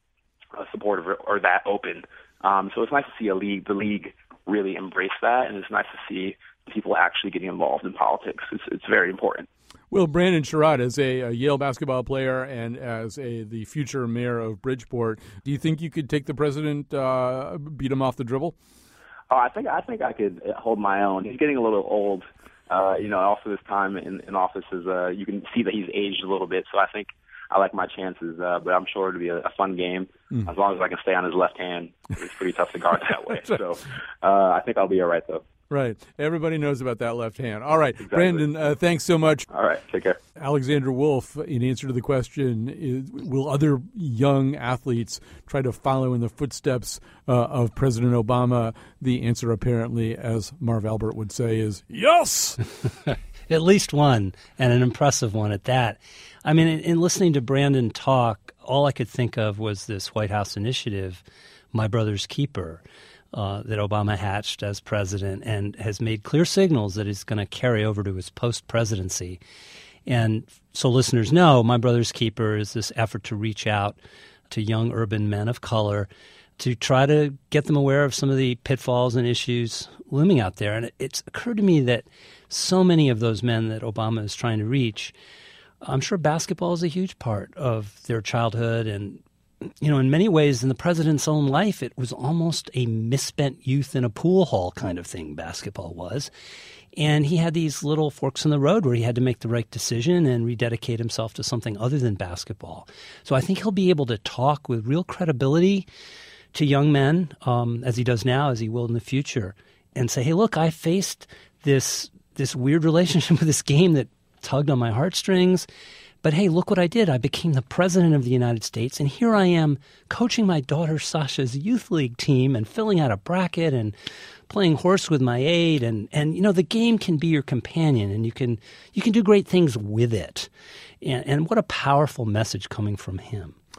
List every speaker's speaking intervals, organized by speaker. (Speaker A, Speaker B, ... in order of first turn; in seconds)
Speaker A: 0.5-9.5, 19.3-35.4, 38.0-38.5, 39.5-40.2
Speaker B: 9.9-18.6, 35.7-39.5, 40.4-52.6
Speaker C: 53.5-69.4, 70.1-74.0, 74.5-85.1, 85.8-89.2, 89.8-96.3, 97.0-105.9, 106.5-115.7, 116.2-124.0, 124.5-130.5, 131.0-133.6